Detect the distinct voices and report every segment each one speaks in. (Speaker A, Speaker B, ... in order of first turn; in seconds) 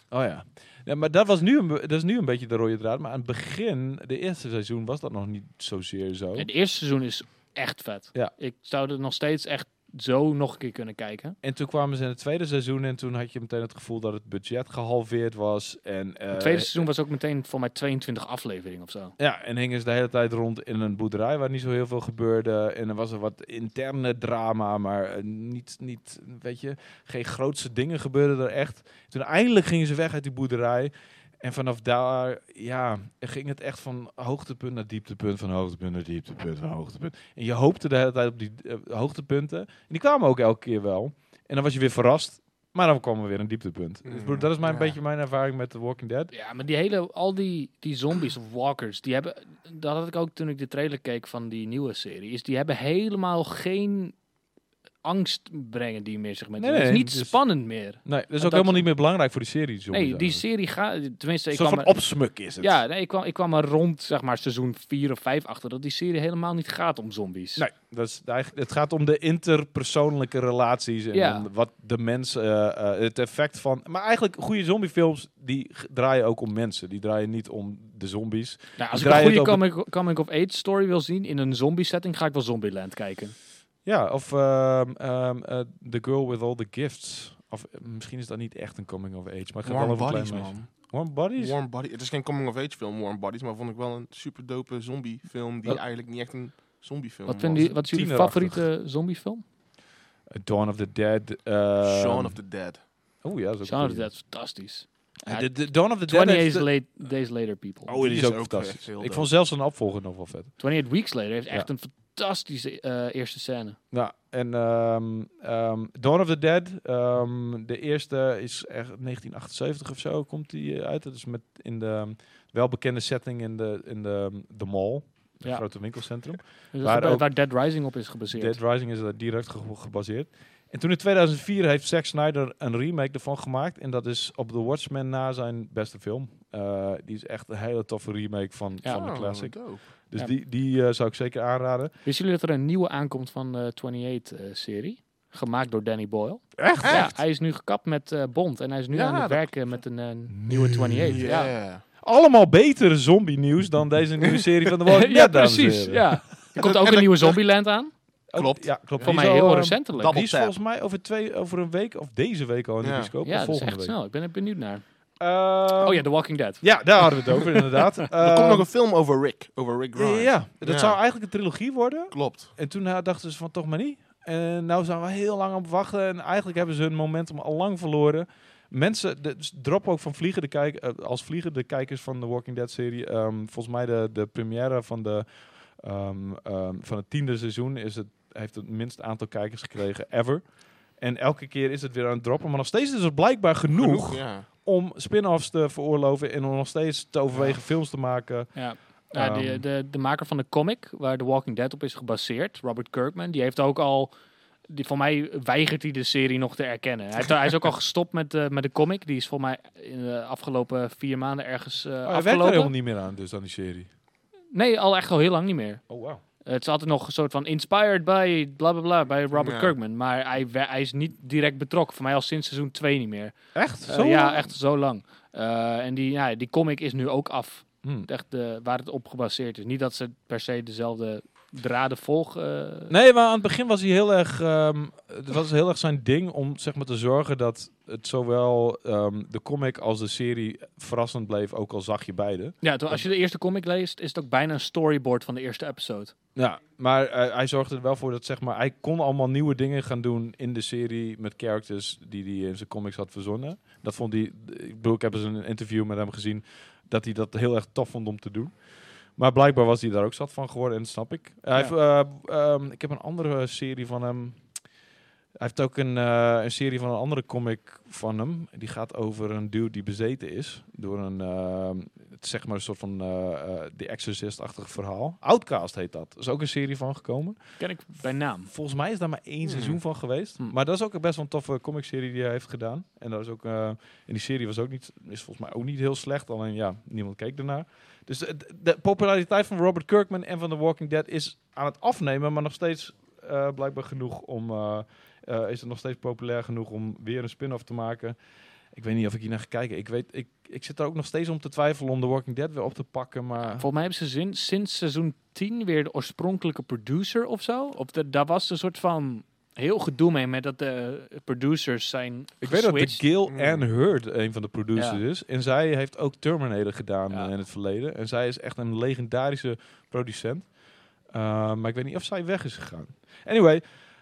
Speaker A: 0.1-6.5, 11.4-16.8, 19.2-46.3, 56.6-57.4, 58.0-60.4, 61.5-62.7, 67.6-79.6, 83.8-91.5, 97.5-98.6, 100.3-102.4, 103.2-104.1, 105.2-106.7, 107.9-110.5, 113.9-127.2, 128.3-141.9, 146.6-147.1, 150.3-151.2, 152.0-156.2, 158.3-163.9, 165.2-166.1, 166.6-168.7, 169.9-185.2, 185.8-190.4, 191.0-198.6, 199.1-199.6, 212.1-213.9, 215.9-216.2, 223.5-224.5, 232.9-243.0, 246.3-258.6, 259.1-264.6, 265.4-277.6, 278.4-298.1, 298.7-303.7, 312.4-320.5, 321.1-323.6
Speaker B: 6.4-11.3, 16.3-19.1, 46.3-54.1, 55.0-58.9, 59.9-67.6, 71.1-71.5, 78.8-83.3, 97.3-99.4, 103.7-107.9, 110.6-113.8, 125.4-128.6, 142.0-151.5, 154.9-157.9, 159.0-160.2, 163.2-164.8, 165.8-167.9, 198.5-204.1, 204.7-212.7, 214.5-215.8, 216.4-232.9, 242.6-246.1, 277.6-278.5, 303.4-313.0, 314.7-315.0
Speaker C: 44.0-45.0, 89.6-90.7, 91.4-97.7, 101.8-102.8, 107.9-109.3, 138.9-139.8, 146.8-147.1, 148.9-149.5, 151.1-151.8, 156.6-157.4, 158.3-159.3, 159.9-160.5, 162.8-163.1, 168.1-171.0, 172.1-172.5, 193.7-194.4, 219.4-219.7, 279.4-279.8, 313.3-313.6